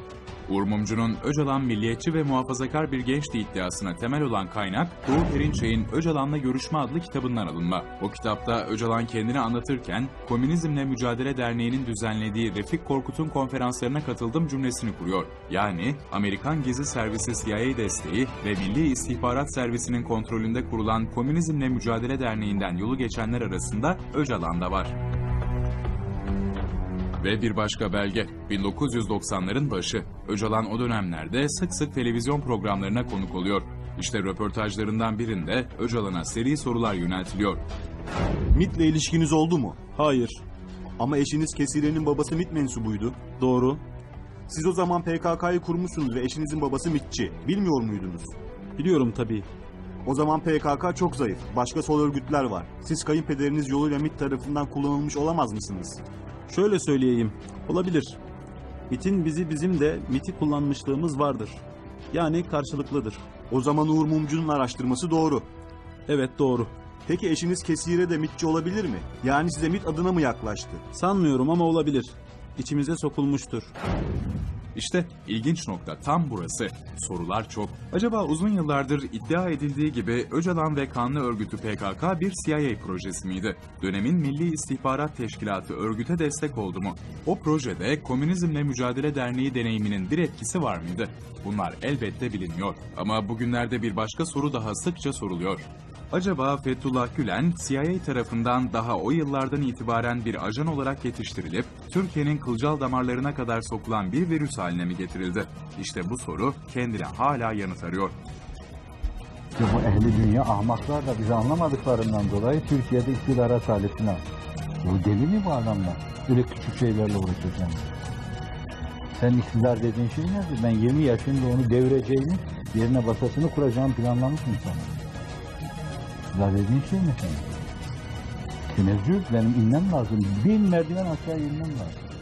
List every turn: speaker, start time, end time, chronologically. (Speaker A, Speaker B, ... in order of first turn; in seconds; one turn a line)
Speaker A: 0.5-24.9
Speaker A: 27.2-37.6
Speaker B: 38.5-39.8
Speaker C: 39.9-40.4
Speaker B: 41.0-43.3
Speaker C: 43.3-43.8
Speaker B: 44.5-48.3
Speaker C: 48.8-49.5
Speaker B: 50.0-56.0
Speaker C: 56.5-58.2
Speaker C: 58.9-63.4
Speaker B: 63.5-65.5
Speaker C: 66.1-66.7
Speaker B: 67.1-70.8
Speaker C: 70.9-73.7
Speaker A: 74.7-108.2
Speaker D: 109.5-114.2
Speaker D: 114.8-117.9
Speaker D: 119.1-125.0
Speaker D: 126.3-127.6
Speaker D: 128.7-132.0